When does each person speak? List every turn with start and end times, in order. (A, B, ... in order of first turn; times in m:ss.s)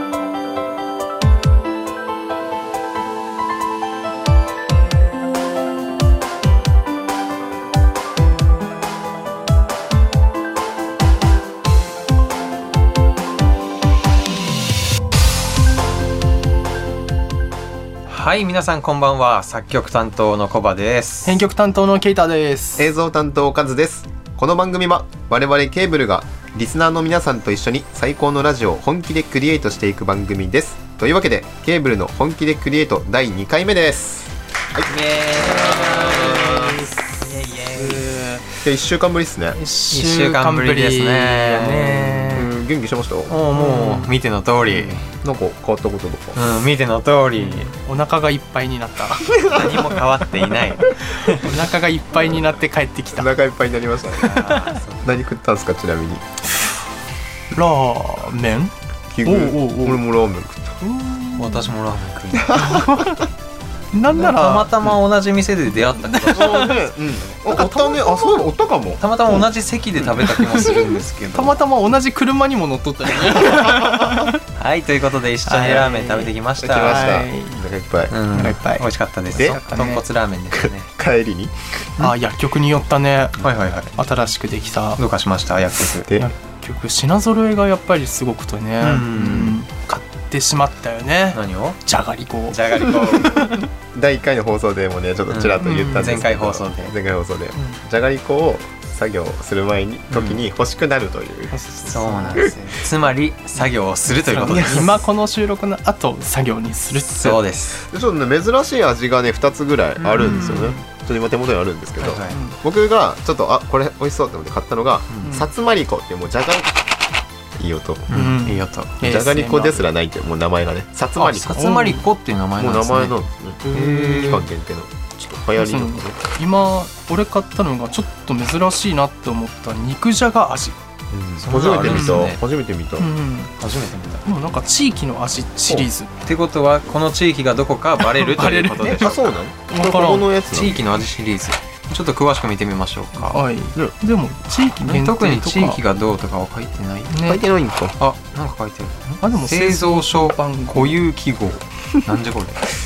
0:18.1-0:21.4 A
0:21.2-0:22.9 B
0:22.8-0:36.9 C
0:34.9-0:38.0 A
0:35.6-0:36.9 B
0:37.4-0:38.6 B
0:38.6-0:39.6 C
0:39.6-0:42.5 B
0:39.9-0:42.4 A
0:42.3-0:43.3 C
0:43.3-0:45.1 A
0:43.5-0:44.1 B
0:44.7-0:46.4 C
0:46.4-0:47.7 A
0:47.4-0:49.3 B
0:49.3-0:49.8 C
0:49.5-0:51.5 A
0:51.3-0:53.3 B
0:53.1-0:54.4 C
0:54.1-0:55.1 A
0:54.2-0:54.8 B
0:55.0-0:56.2 C
0:57.5-0:58.7 B
0:59.1-1:00.8 C
0:59.2-1:00.0 B
1:00.8-1:01.7 B
1:01.4-1:02.8 A
1:02.4-1:03.1 C
1:02.6-1:03.3 B
1:03.9-1:04.7 B
1:04.1-1:06.8 A
1:06.0-1:06.8 B
1:06.3-1:09.5 C
1:07.5-1:08.4 B
1:09.0-1:11.6 A
1:10.1-1:14.4 B
1:13.4-1:14.3 C
1:14.6-1:17.2 A
1:15.5-1:17.6 B
1:16.6-1:18.1 C
1:18.1-1:20.9 A
1:18.3-1:20.0 B
1:19.4-1:19.6 C
1:20.5-1:21.5 C
1:22.0-1:23.4 B
1:23.4-1:24.0 A
1:24.0-1:25.0 B
1:25.0-1:26.1 A
1:26.2-1:33.6 B
1:28.8-1:29.6 A
1:31.3-1:31.8 A
1:32.5-1:33.4 A
1:33.6-1:41.6 C
1:35.3-1:36.9 A
1:35.6-1:36.2 B
1:37.6-1:37.8 B
1:40.1-1:40.4 A
1:41.5-1:42.6 B
1:41.9-1:45.0 A
1:44.2-1:47.5 B
1:47.1-1:47.8 A
1:47.8-1:56.8 C
1:50.0-1:50.6 A
1:50.2-1:50.8 B
1:52.0-1:52.4 A
1:52.3-1:52.6 B
1:55.1-1:55.4 A
1:57.6-1:58.1 C
1:58.1-1:59.0 A
1:58.1-1:59.8 B
1:59.0-2:01.5 C
2:01.2-2:03.2 A
2:01.5-2:02.1 B
2:02.6-2:03.6 C
2:03.6-2:04.5 B
2:03.7-2:04.4 A
2:04.2-2:06.2 C
2:05.6-2:10.8 B
2:11.1-2:13.1 C
2:11.4-2:12.4 A
2:11.8-2:12.3 B
2:13.0-2:13.5 B
2:13.6-2:14.2 A
2:14.3-2:16.1 B
2:16.2-2:19.2 A
2:18.0-2:20.3 B
2:18.9-2:20.8 C
2:20.5-2:23.4 A
2:23.2-2:25.8 B
2:24.8-2:27.1 A
2:27.1-2:27.4 B
2:27.2-2:28.0 C
2:28.0-2:32.6 A
2:29.2-2:31.0 B